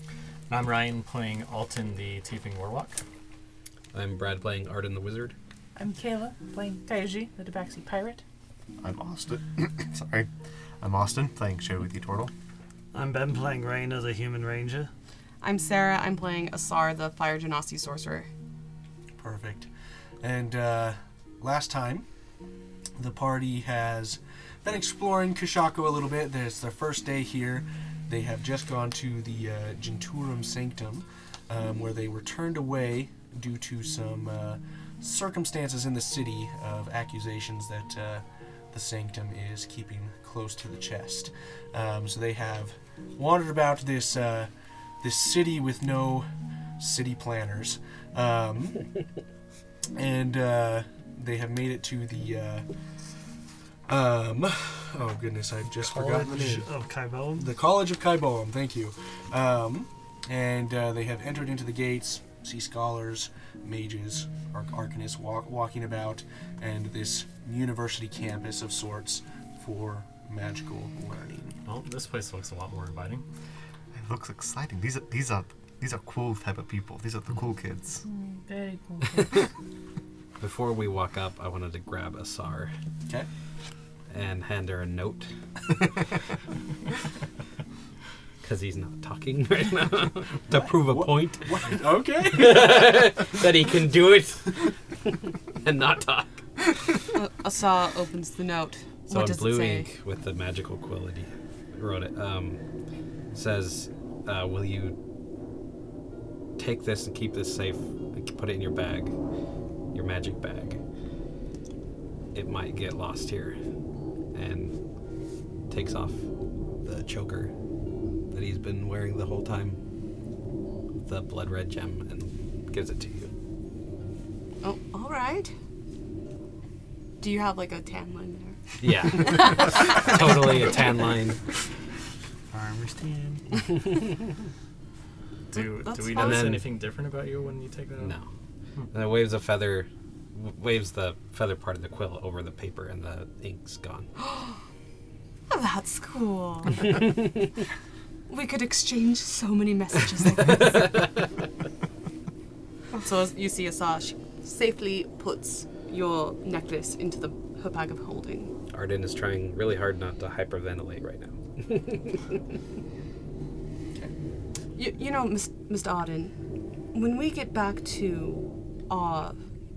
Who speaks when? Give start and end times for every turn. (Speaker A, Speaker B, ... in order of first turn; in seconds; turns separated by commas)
Speaker A: 0.5-3.0, Speaker B: 3.9-5.4, Speaker C: 5.8-8.2, Speaker D: 8.8-10.3, Speaker D: 10.8-12.3, Speaker E: 12.9-14.9, Speaker F: 15.4-18.3, Speaker G: 19.2-19.7, Speaker G: 20.2-22.1, Speaker G: 23.0-44.5, Speaker G: 45.0-46.3, Speaker G: 46.8-48.9, Speaker G: 50.0-52.7, Speaker G: 53.9-56.7, Speaker E: 55.8-57.5, Speaker G: 57.4-71.6, Speaker A: 71.7-73.2, Speaker D: 73.9-78.0, Speaker C: 78.0-79.4, Speaker B: 80.4-82.7, Speaker B: 84.1-85.3, Speaker B: 88.4-91.5, Speaker G: 90.8-92.8, Speaker B: 92.4-94.7, Speaker B: 95.6-96.4, Speaker F: 97.1-99.9, Speaker B: 99.1-102.6, Speaker B: 103.3-105.0, Speaker B: 106.6-109.1, Speaker B: 109.9-110.8, Speaker B: 112.3-113.6, Speaker B: 114.3-114.8, Speaker B: 115.7-116.3, Speaker B: 116.8-117.5, Speaker B: 118.3-119.8, Speaker B: 121.0-123.3, Speaker F: 124.6-125.5, Speaker F: 127.2-130.6, Speaker B: 128.8-131.4, Speaker E: 132.5-133.5, Speaker A: 135.5-138.2, Speaker F: 135.6-136.6, Speaker B: 136.1-136.7, Speaker B: 138.0-138.3, Speaker B: 138.9-144.1, Speaker F: 144.2-144.6, Speaker F: 145.5-146.9, Speaker F: 148.3-151.0, Speaker F: 153.0-158.5, Speaker B: 158.7-162.2, Speaker F: 164.8-166.3, Speaker F: 166.9-169.4